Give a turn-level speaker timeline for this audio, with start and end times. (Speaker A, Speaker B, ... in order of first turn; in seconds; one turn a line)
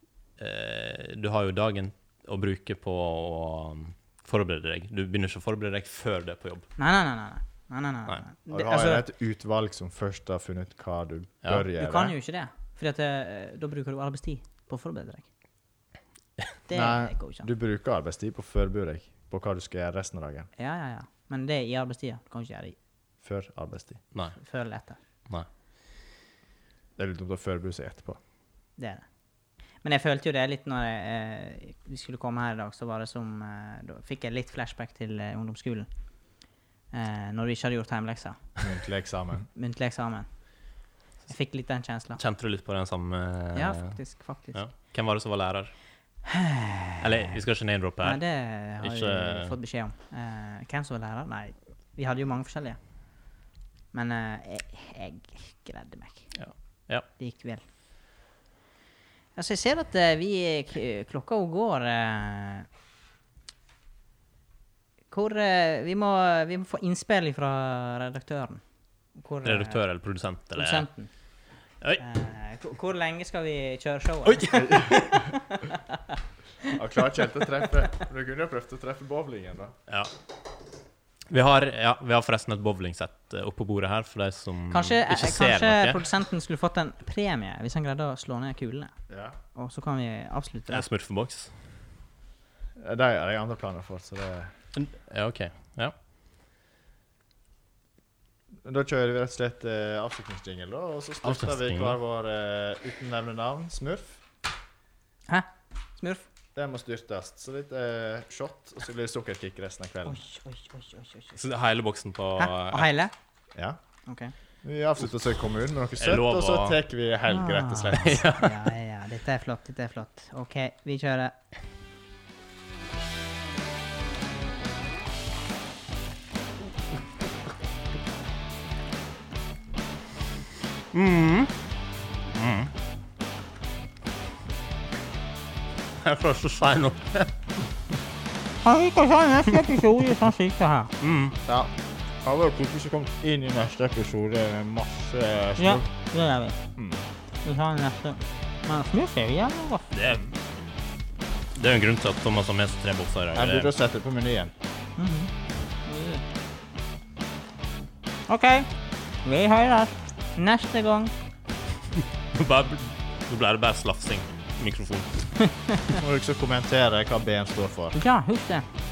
Speaker A: 0.4-6.7
Speaker B: 6.8-9.0
Speaker C: 8.5-12.1
Speaker B: 11.8-15.2
Speaker B: 16.7-17.5
Speaker C: 16.7-20.5
Speaker B: 20.6-22.8
Speaker C: 23.2-24.0
Speaker B: 24.4-25.0
Speaker C: 27.0-28.2
Speaker B: 28.8-29.1
Speaker B: 29.8-35.9
Speaker B: 36.9-38.4
Speaker C: 38.6-39.5
Speaker B: 39.5-40.3
Speaker B: 41.3-42.2
Speaker A: 42.1-44.0
Speaker B: 43.5-44.6
Speaker A: 44.5-45.7
Speaker B: 46.2-47.4
Speaker A: 47.0-48.2
Speaker B: 48.0-52.8
Speaker A: 48.8-49.5
Speaker B: 53.9-56.4
Speaker A: 56.3-57.0
Speaker B: 57.1-57.6
Speaker B: 59.3-62.7
Speaker B: 65.1-68.6
Speaker B: 69.1-69.8
Speaker A: 69.4-70.8
Speaker B: 70.5-71.1
Speaker B: 72.0-76.2
Speaker A: 74.2-75.2
Speaker C: 74.5-75.3
Speaker C: 76.7-79.7
Speaker A: 81.3-86.0
Speaker B: 84.7-88.9
Speaker C: 89.1-89.3
Speaker B: 89.5-90.9
Speaker A: 90.7-91.5
Speaker C: 92.8-94.5
Speaker A: 94.7-95.9
Speaker C: 98.6-104.2
Speaker A: 101.2-102.0
Speaker B: 105.3-106.2
Speaker C: 106.5-110.2
Speaker B: 110.0-111.4
Speaker A: 111.3-112.9
Speaker B: 112.4-113.1
Speaker B: 114.0-114.3
Speaker C: 114.6-118.2
Speaker A: 116.0-116.8
Speaker B: 117.3-121.3
Speaker A: 117.9-118.7
Speaker A: 130.9-131.6
Speaker A: 132.3-132.7
Speaker A: 136.0-137.3
Speaker B: 138.6-140.9
Speaker A: 141.0-141.4
Speaker C: 141.4-141.7
Speaker C: 142.2-145.8
Speaker B: 145.6-146.6
Speaker C: 146.8-147.0
Speaker B: 147.4-149.9
Speaker A: 149.9-150.3
Speaker A: 151.5-153.7
Speaker C: 153.3-154.5
Speaker B: 155.0-155.3
Speaker B: 155.8-156.2
Speaker B: 158.3-158.7
Speaker B: 159.2-161.1
Speaker A: 162.0-165.4
Speaker C: 165.9-168.0
Speaker B: 167.9-168.7